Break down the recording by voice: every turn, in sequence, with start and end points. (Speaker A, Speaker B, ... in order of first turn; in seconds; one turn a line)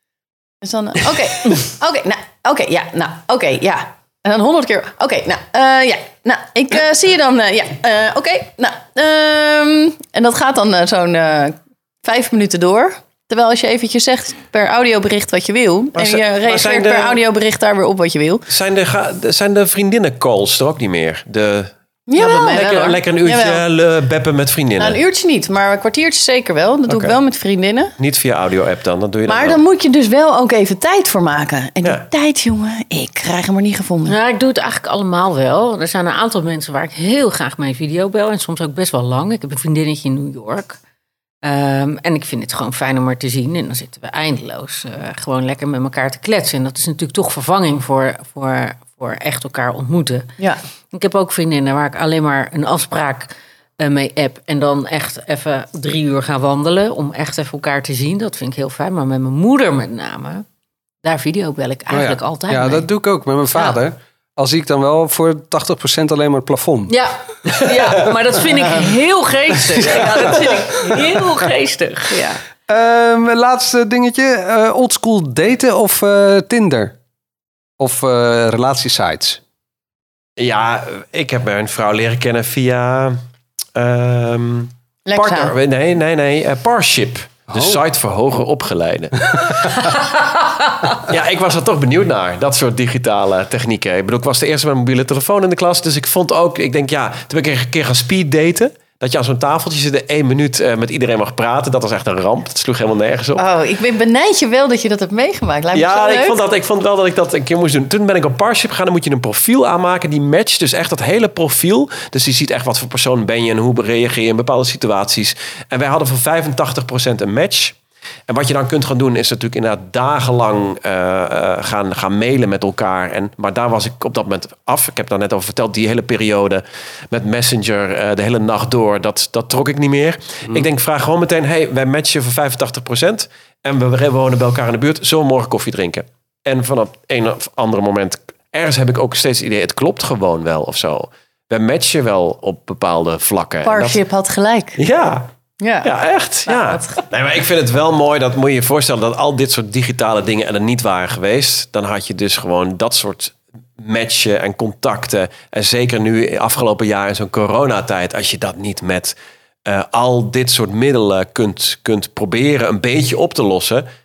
Speaker A: 0.6-18.4
Speaker B: 15.9-17.2
Speaker B: 18.5-25.0
Speaker A: 22.1-22.6
Speaker C: 22.2-23.0
Speaker A: 23.2-23.6
Speaker A: 24.8-27.9
Speaker B: 26.9-27.2
Speaker B: 28.0-29.6
Speaker A: 29.3-34.2
Speaker C: 34.1-40.8
Speaker C: 41.4-50.3
Speaker C: 50.9-60.5
Speaker C: 61.0-62.9
Speaker D: 61.9-67.0
Speaker C: 66.9-72.4
Speaker D: 69.7-71.3
Speaker D: 72.7-77.0
Speaker D: 77.8-79.4
Speaker B: 80.4-83.2
Speaker B: 83.8-89.9
Speaker A: 85.1-85.5
Speaker D: 87.5-87.8
Speaker B: 91.0-103.4
Speaker A: 103.4-106.4
Speaker B: 105.7-117.8
Speaker B: 118.3-144.0
Speaker A: 143.6-144.8
Speaker B: 144.8-145.3
Speaker A: 145.6-145.9
Speaker B: 145.8-159.1
Speaker A: 146.5-147.0
Speaker B: 159.7-163.9